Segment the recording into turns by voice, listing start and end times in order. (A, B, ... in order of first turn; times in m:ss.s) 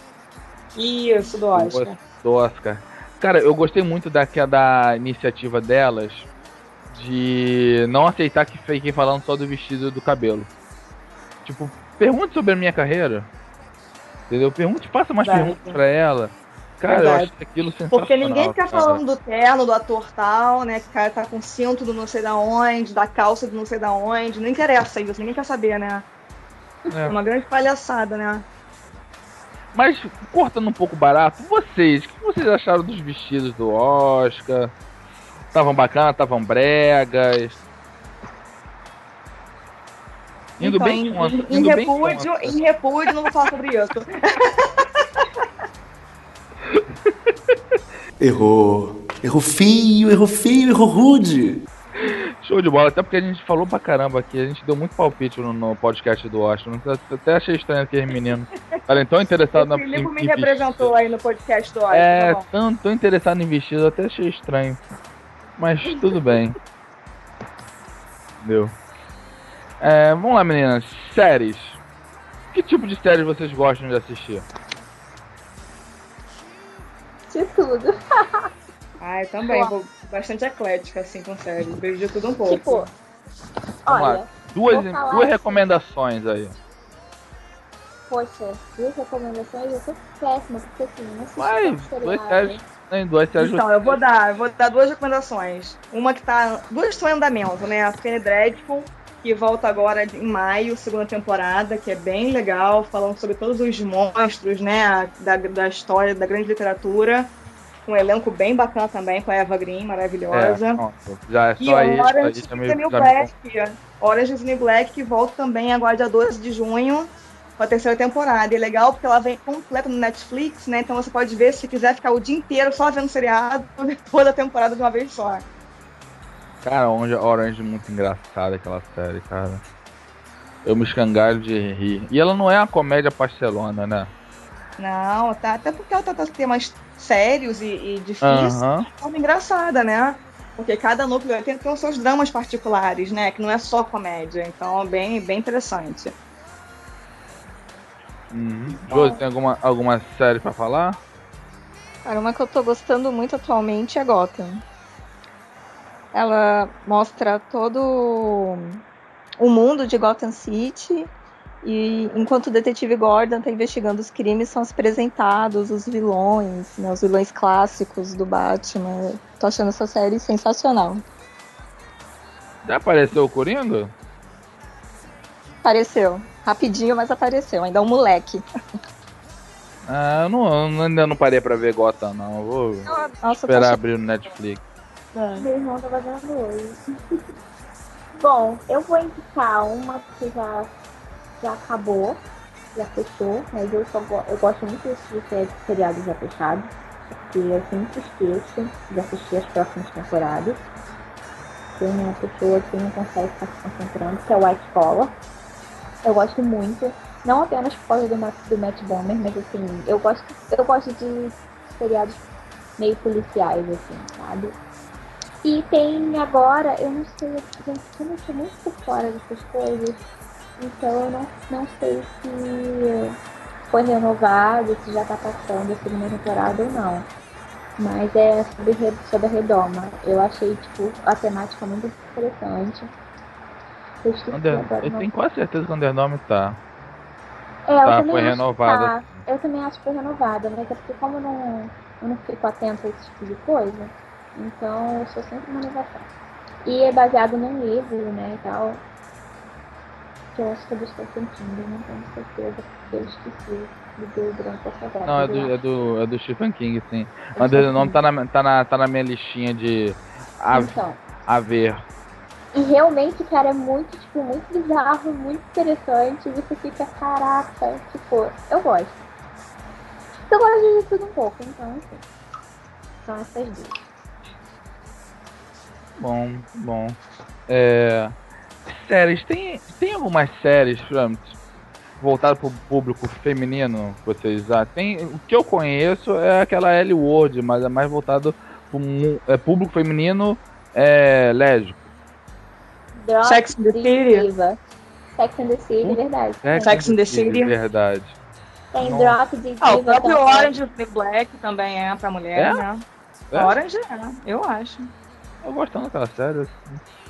0:00.8-0:02.0 A
0:01.5-0:06.3 B
0:06.9-0:10.5 B
0:11.4-0:13.3 B
0:14.3-0:19.0 B
0:15.2-0:15.8 A
0:16.9-0:17.3 A
0:17.9-0:26.1 A
0:26.9-0:27.2 B
0:27.1-0:28.4 A
0:29.7-0:34.7 B
0:35.5-0:37.6 B
0:40.6-0:45.3 A
0:40.6-0:42.6 B
0:48.2-0:51.6 C
0:52.0-1:00.9 B
0:59.5-1:02.4 A
1:01.9-1:04.8 B
1:05.6-1:06.6 B
1:08.4-1:08.7 B
1:09.8-1:11.8 B
1:12.5-1:14.4 B
1:17.3-1:18.5 D
1:19.0-1:22.9 A
1:22.4-1:22.9 D
1:23.8-1:25.7 D
1:23.9-1:26.6 B
1:28.1-1:32.6 D
1:31.4-1:34.0 B
1:33.4-1:47.3 A
1:47.9-1:50.8 A
1:50.3-1:53.3 B
1:51.6-2:05.4 A
2:06.6-2:09.6 B
2:10.6-2:14.1 B
2:14.8-2:26.1 A
2:18.2-2:18.9 B
2:28.3-2:31.0 B
2:28.9-2:29.2 D
2:32.0-2:34.6 E
2:36.1-2:38.8 E
2:39.4-2:41.1 E
2:41.6-2:51.0 E
2:52.6-2:53.9 B
2:55.6-2:58.4 E
2:59.9-3:02.9 B
3:02.8-3:03.8 E
3:03.4-3:04.6 B
3:05.1-3:05.5 E
3:05.4-3:06.8 D
3:08.2-3:10.7 D
3:11.4-3:12.2 D
3:12.7-3:20.6 D
3:21.8-3:25.1 D
3:26.0-3:32.2 D
3:32.8-3:34.6 D
3:35.4-3:40.0 D
3:40.6-3:43.2 D
3:43.7-3:47.1 D
3:47.8-3:52.9 D
3:54.0-3:55.1 D
3:54.3-3:56.6 B
3:57.7-4:06.1 D
3:57.8-3:59.1 B
4:06.6-4:08.8 D
4:10.3-4:15.5 D
4:15.0-4:21.8 B
4:17.4-4:18.0 D
4:20.5-4:21.0 D
4:22.5-4:29.0 D
4:30.3-4:32.0 D
4:33.0-4:33.7 D
4:36.0-4:38.1 B
4:38.6-4:41.4 B
4:42.0-4:51.8 B
4:53.0-4:54.6 D
4:53.2-4:54.3 A
4:55.1-4:56.8 D
4:55.8-4:58.2 B
4:56.6-4:57.5 A
4:58.7-5:00.5 D
4:58.8-4:59.2 B
4:59.6-5:04.9 A
5:02.4-5:02.6 B
5:03.3-5:03.6 B
5:05.4-5:06.8 B